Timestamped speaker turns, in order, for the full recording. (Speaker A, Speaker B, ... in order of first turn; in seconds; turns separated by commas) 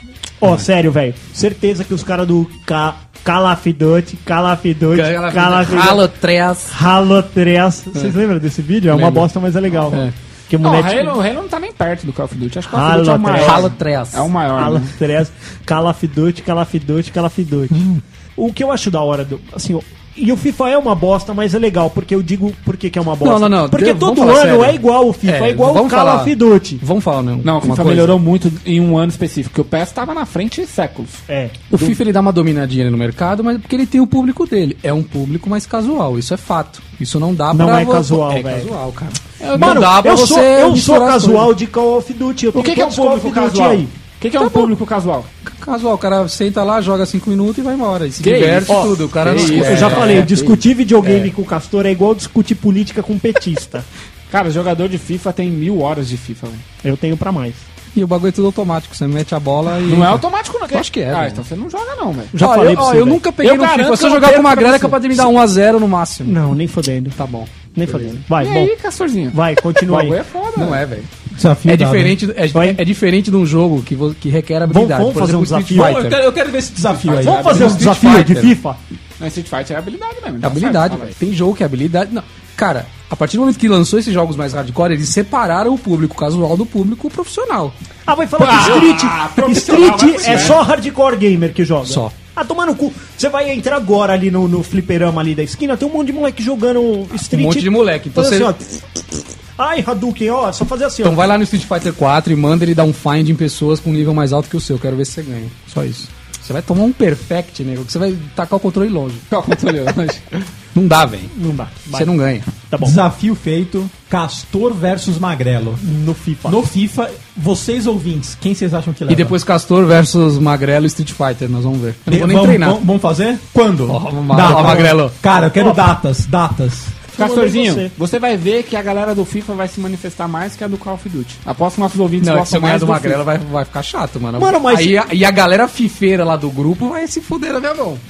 Speaker A: 0.4-6.1, Speaker B: 4.9-6.7, Speaker A: 6.7-11.2, Speaker B: 8.9-9.3, Speaker C: 10.6-14.9, Speaker A: 12.7-13.7, Speaker B: 13.3-14.3, Speaker A: 14.5-26.8, Speaker B: 23.2-28.2, Speaker C: 27.4-31.2, Speaker A: 31.3-31.6, Speaker B: 31.7-41.5, Speaker A: 37.5-38.7, Speaker C: 39.4-39.8, Speaker A: 39.5-43.9, Speaker C: 42.5-45.3, Speaker B: 44.4-44.7, Speaker B: 45.4-50.3, Speaker C: 48.2-50.6, Speaker A: 48.7-53.9, Speaker B: 51.0-51.3, Speaker C: 54.3-56.6, Speaker A: 56.8-57.6, Speaker B: 57.9-61.4, Speaker C: 59.8-62.3, Speaker A: 62.3-63.2, Speaker B: 62.4-66.4, Speaker C: 63.4-65.2, Speaker A: 66.2-67.2, Speaker B: 67.2-67.5, Speaker A: 67.7-68.7, Speaker C: 67.9-70.8, Speaker A: 69.3-70.2, Speaker B: 70.5-71.1, Speaker D: 71.3-72.2, Speaker B: 71.6-76.2, Speaker A: 72.5-72.8, Speaker A: 74.7-76.1, Speaker D: 75.7-77.8, Speaker C: 76.9-77.8, Speaker A: 77.2-78.8, Speaker B: 77.5-78.5, Speaker C: 79.2-81.1, Speaker B: 80.4-87.7, Speaker A: 88.0-98.6, Speaker C: 88.4-90.6, Speaker B: 90.2-90.6, Speaker B: 91.8-92.1, Speaker B: 97.3-98.5, Speaker A: 99.6-101.2, Speaker B: 101.0-109.2, Speaker C: 109.3-110.4, Speaker B: 110.7-111.3, Speaker A: 111.3-112.1, Speaker B: 111.9-112.5, Speaker A: 112.7-113.0, Speaker D: 112.8-115.8, Speaker A: 115.8-116.6, Speaker D: 116.4-119.4, Speaker B: 119.1-122.8, Speaker D: 122.1-127.0, Speaker B: 123.9-125.1, Speaker A: 125.3-125.9, Speaker A: 127.1-127.9, Speaker C: 127.1-133.2, Speaker B: 132.2-138.0, Speaker A: 134.4-135.0